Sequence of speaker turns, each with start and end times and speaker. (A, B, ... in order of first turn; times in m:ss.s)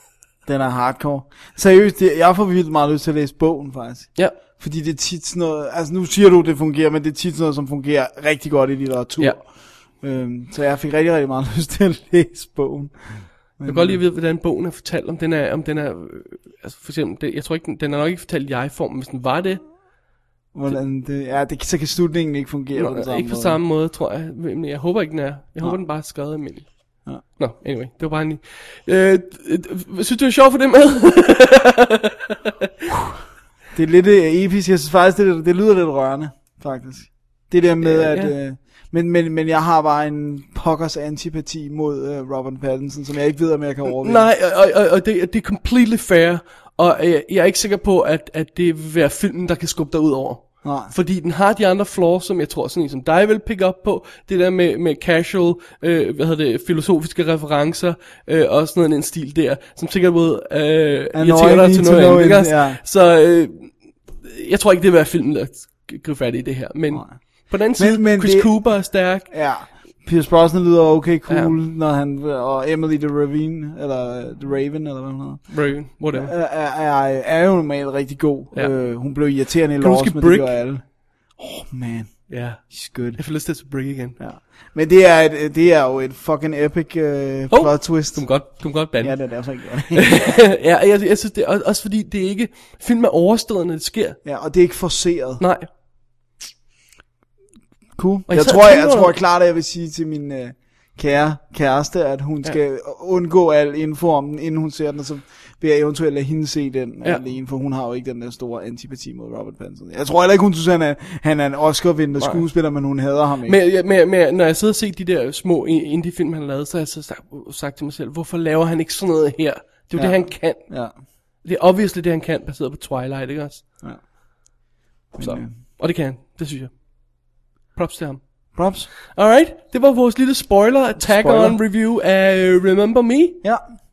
0:00.4-0:09.5 A
0:10.0-0:14.0 A
0:13.6-0:19.6 B
0:20.5-0:23.6 A
0:22.7-0:32.4 B
0:33.7-0:44.3 A
0:37.8-0:38.3 B
0:43.9-1:09.3 B
0:50.6-0:50.9 A
1:01.1-1:02.8 A
1:06.9-1:07.2 A
1:07.8-1:15.6 A
1:11.3-1:11.6 B
1:15.5-1:16.3 B
1:16.1-1:20.8 A
1:19.8-1:20.5 B
1:21.4-1:23.2 A
1:22.3-1:24.2 B
1:24.2-1:30.2 A
1:27.5-1:34.2 B
1:34.2-1:35.4 A
1:35.4-1:35.7 B
1:38.0-1:53.6 A
1:38.3-1:39.2 B
1:52.2-1:52.4 B
1:53.4-2:00.7 B
1:59.9-2:00.9 A
2:01.4-2:03.6 B
2:05.1-2:05.5 A
2:05.2-2:06.7 B
2:07.7-2:08.2 B
2:08.6-2:08.9 A
2:09.1-2:13.4 B
2:11.0-2:11.6 A